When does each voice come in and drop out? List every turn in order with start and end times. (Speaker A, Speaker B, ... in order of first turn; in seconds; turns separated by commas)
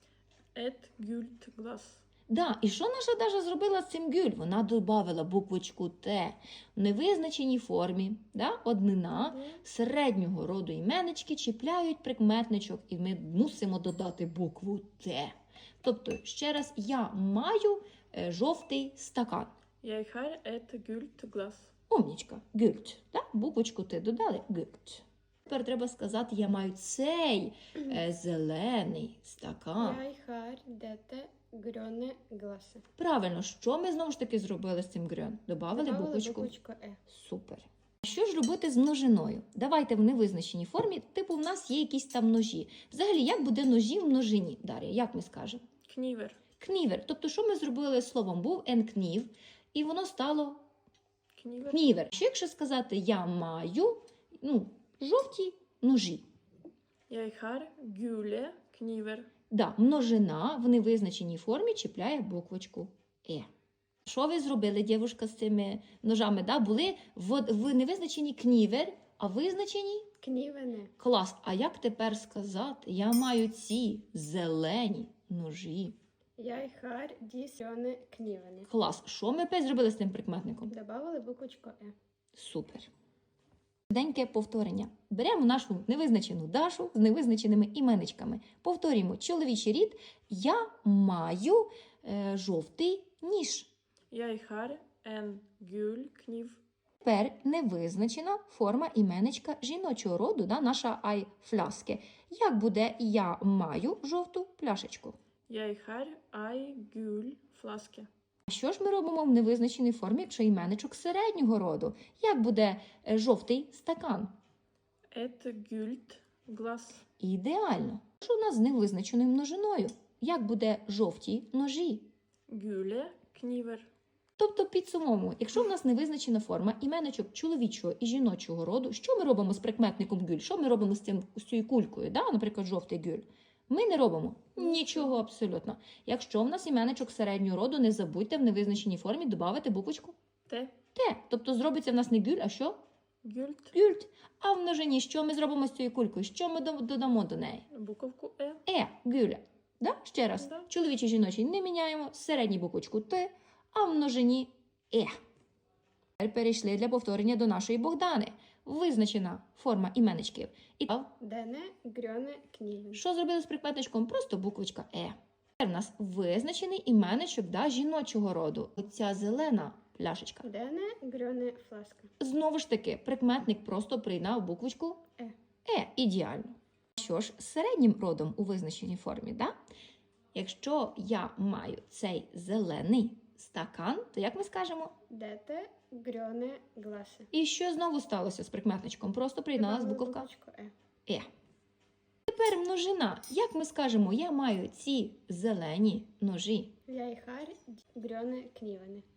Speaker A: 0.5-2.0, Speaker B: 2.3-19.5, Speaker A: 9.2-9.6, Speaker A: 19.8-21.7, Speaker B: 21.9-30.0, Speaker C: 29.8-32.8, Speaker B: 33.0-36.5, Speaker C: 35.7-37.0, Speaker B: 37.1-45.6, Speaker A: 45.8-46.4, Speaker B: 46.6-50.6, Speaker A: 51.4-51.9, Speaker B: 51.7-56.2, Speaker A: 57.1-59.3, Speaker B: 59.5-63.5, Speaker B: 64.0-70.1, Speaker C: 70.2-70.9, Speaker B: 71.0-76.0, Speaker C: 76.4-78.7, Speaker B: 78.7-80.7, Speaker C: 80.7-81.9, Speaker B: 82.3-82.9, Speaker B: 83.9-93.7, Speaker A: 94.1-96.6, Speaker B: 97.0-105.2, Speaker A: 105.5-108.1, Speaker B: 108.5-114.3, Speaker A: 115.1-117.0, Speaker B: 117.2-122.1, Speaker A: 122.5-123.9, Speaker B: 124.4-140.2, Speaker A: 134.6-135.1, Speaker A: 140.5-140.7, Speaker B: 140.9-142.8, Speaker A: 143.2-143.7, Speaker B: 143.7-147.7, Speaker A: 147.7-148.6, Speaker B: 148.7-155.1, Speaker A: 150.4-150.7, Speaker B: 156.2-161.1, Speaker C: 161.2-163.0, Speaker B: 162.9-170.5, Speaker C: 170.4-172.1, Speaker B: 172.2-175.0, Speaker B: 175.7-179.5, Speaker B: 180.3-184.9, Speaker C: 185.1-187.3, Speaker B: 187.3-190.3, Speaker C: 189.6-190.7, Speaker B: 192.3-196.7, Speaker C: 196.9-199.0